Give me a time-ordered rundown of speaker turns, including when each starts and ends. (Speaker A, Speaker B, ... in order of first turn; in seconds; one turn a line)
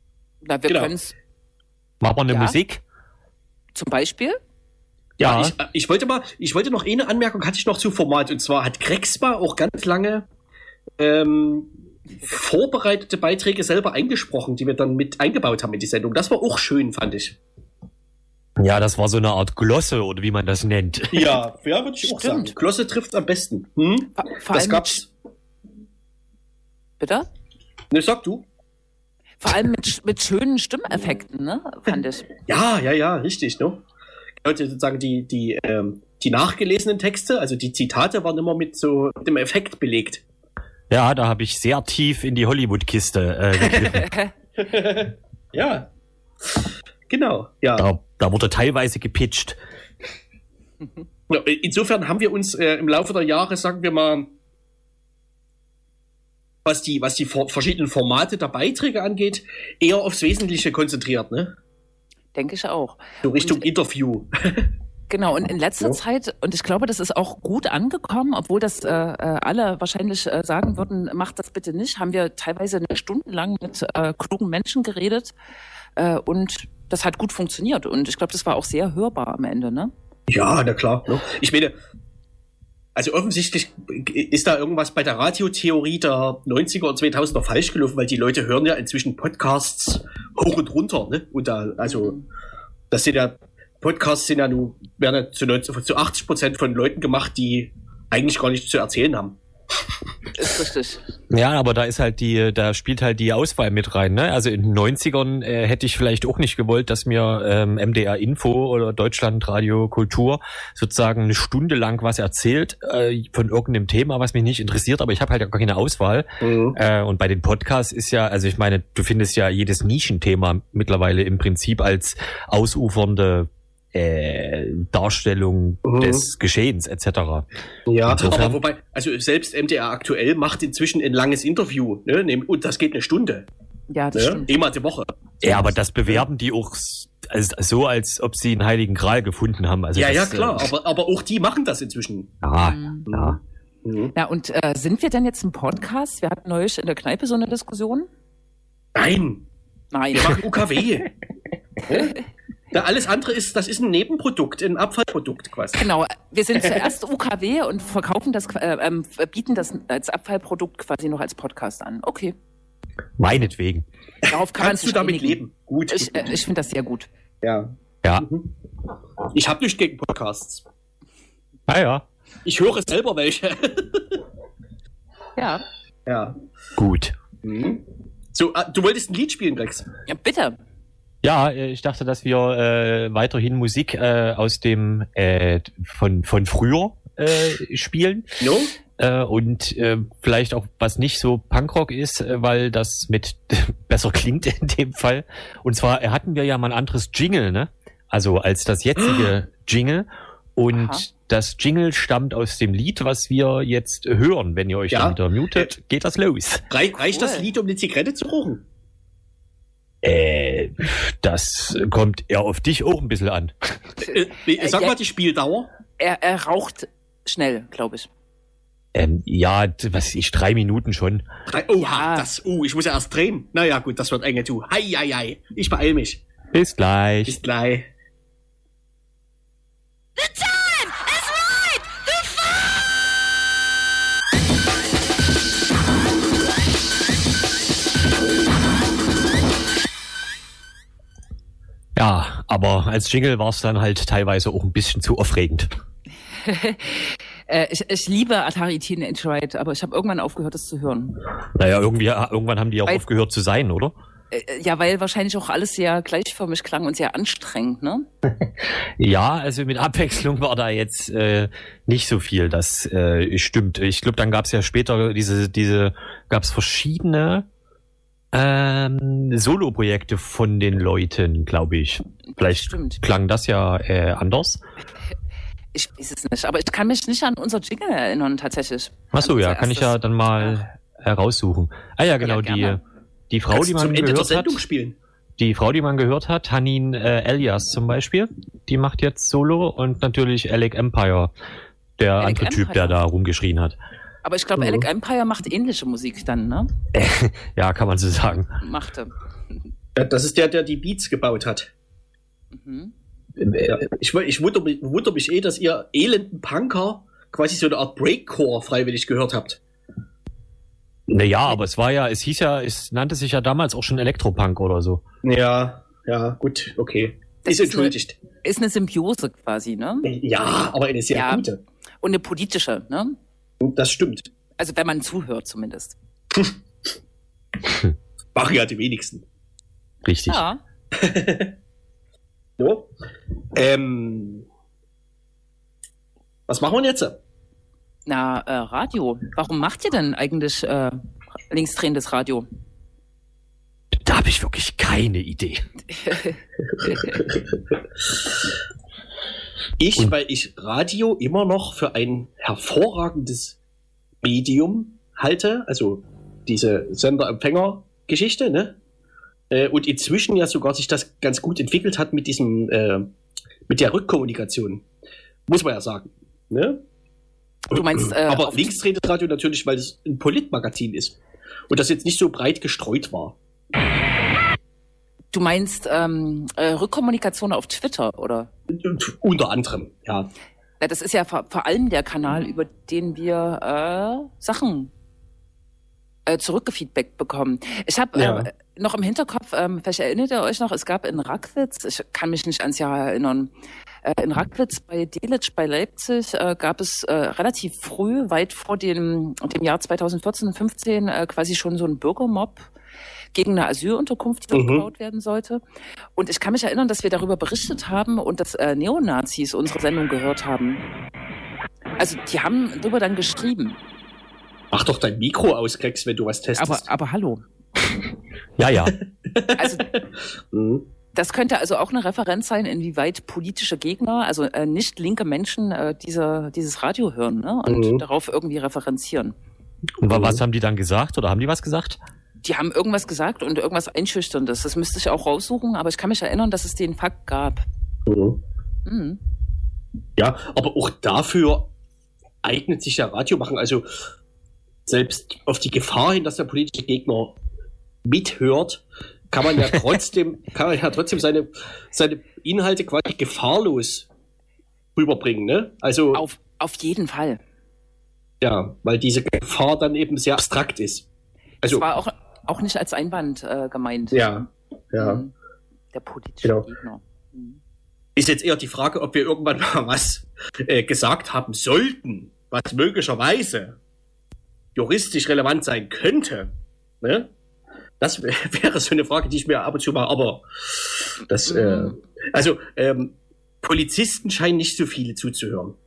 Speaker A: 0.4-1.1
Speaker B: 0.7-0.9
Speaker C: 2.0-2.8
Speaker A: 2.3-2.6
Speaker A: 3.7-4.4
Speaker B: 5.2-10.2
Speaker C: 5.2-5.5
Speaker B: 11.0-17.4
Speaker C: 18.6-21.4
Speaker B: 21.1-25.1
Speaker A: 22.0-22.5
Speaker A: 24.1-25.0
Speaker A: 27.0-27.3
Speaker B: 27.9-28.4
Speaker A: 29.4-32.3
Speaker B: 32.5-33.8
Speaker B: 34.4-40.2
Speaker C: 40.9-44.1
Speaker B: 43.7-43.9
Speaker B: 44.6-45.9
Speaker B: 46.5-47.9
Speaker C: 47.8-49.6
Speaker B: 51.3-54.3
Speaker B: 56.6-61.5
Speaker A: 62.3-63.7
Speaker B: 63.2-64.7
Speaker A: 65.1-75.3
Speaker A: 76.0-79.9
Speaker B: 80.3-81.7
Speaker B: 83.0-92.2
Speaker A: 91.8-92.2
Speaker B: 92.9-99.4
Speaker A: 100.3-101.0
Speaker C: 101.3-127.5
Speaker B: 116.4-116.8
Speaker B: 125.8-126.3
Speaker B: 127.9-133.5
Speaker C: 128.1-128.6
Speaker A: 133.9-134.5
Speaker B: 134.1-136.2
Speaker C: 135.4-140.7
Speaker B: 139.9-142.3
Speaker C: 142.4-143.4
Speaker A: 142.6-143.1
Speaker B: 143.1-144.1
Speaker A: 144.1-148.1
Speaker B: 148.9-149.4
Speaker A: 149.9-150.5
Speaker B: 150.1-151.1
Speaker B: 151.8-152.2
Speaker B: 152.7-155.8
Speaker A: 155.8-162.3
Speaker C: 163.2-163.8
Speaker B: 164.2-166.3
Speaker A: 164.3-167.1
Speaker B: 167.4-168.5
Speaker B: 169.3-170.6
Speaker C: 171.7-172.0
Speaker B: 172.4-174.2
Speaker A: 175.3-175.6
Speaker B: 176.1-176.3
Speaker C: 176.8-177.1
Speaker B: 177.4-179.9
Speaker A: 180.1-180.6
Speaker C: 181.2-188.4
Speaker B: 188.4-188.8
Speaker C: 189.0-206.6
Speaker B: 199.0-199.3
Speaker A: 200.7-201.0
Speaker B: 204.9-205.7
Speaker B: 206.7-208.6
Speaker A: 207.0-207.4
Speaker C: 210.0-213.7
Speaker B: 214.0-215.7
Speaker A: 214.5-214.9
Speaker A: 216.0-218.1
Speaker C: 218.9-221.2
Speaker B: 221.5-226.2
Speaker A: 221.8-222.3
Speaker C: 226.5-227.4
Speaker B: 227.2-227.9
Speaker A: 230.3-231.8
Speaker C: 241.9-245.7
Speaker A: 246.4-251.2
Speaker C: 251.5-253.9
Speaker A: 254.3-258.1
Speaker C: 258.3-267.5
Speaker C: 268.3-274.6
Speaker A: 272.3-273.0
Speaker A: 275.7-280.6
Speaker C: 279.1-284.6
Speaker A: 282.2-282.8
Speaker B: 283.5-285.0
Speaker C: 285.4-291.3
Speaker C: 292.0-293.8
Speaker A: 292.2-293.0
Speaker A: 294.2-296.7
Speaker B: 294.6-294.8
Speaker C: 296.9-298.5
Speaker A: 298.3-299.1
Speaker B: 299.9-301.7
Speaker A: 302.5-302.9
Speaker B: 303.4-309.6
Speaker C: 311.1-315.0
Speaker B: 315.2-318.2
Speaker A: 317.4-320.1
Speaker B: 320.0-321.6
Speaker A: 321.1-321.4
Speaker A: 322.0-323.2
Speaker B: 323.6-324.3
Speaker A: 324.6-325.9
Speaker B: 328.3-329.2
Speaker C: 330.0-330.4
Speaker A: 330.3-330.6
Speaker B: 330.9-331.5
Speaker B: 332.6-332.9
Speaker B: 333.5-334.4
Speaker B: 336.5-337.2
Speaker A: 338.1-342.5
Speaker C: 343.9-345.6
Speaker A: 345.9-346.4
Speaker B: 346.8-347.4
Speaker B: 349.8-353.6
Speaker B: 354.2-358.8
Speaker B: 359.5-363.1
Speaker B: 363.7-364.9
Speaker B: 365.5-366.8
Speaker A: 367.7-368.7
Speaker B: 367.7-371.2
Speaker B: 371.7-373.4
Speaker A: 375.3-378.5
Speaker B: 378.7-380.3
Speaker A: 380.8-384.9
Speaker A: 386.2-393.5
Speaker B: 388.1-388.5
Speaker A: 394.0-402.7
Speaker A: 403.3-405.6
Speaker B: 404.5-404.9
Speaker A: 406.1-410.8
Speaker A: 412.0-413.8
Speaker B: 414.7-416.9
Speaker A: 416.6-417.4
Speaker C: 418.6-418.9
Speaker B: 419.2-420.9
Speaker A: 419.6-419.9
Speaker A: 421.1-429.3
Speaker B: 427.6-428.0
Speaker C: 430.0-432.0
Speaker B: 430.1-430.4
Speaker A: 432.4-437.6
Speaker B: 438.1-438.4
Speaker A: 438.9-439.2
Speaker B: 440.2-441.7
Speaker B: 442.4-443.9
Speaker B: 444.9-447.4
Speaker B: 448.0-454.1
Speaker B: 454.9-456.2
Speaker A: 456.1-457.4
Speaker B: 458.4-461.1
Speaker A: 461.6-464.4
Speaker B: 464.1-465.2
Speaker A: 465.0-465.3
Speaker A: 465.9-467.6
Speaker B: 468.1-473.8
Speaker B: 474.8-477.3
Speaker B: 478.0-485.8
Speaker A: 481.4-482.0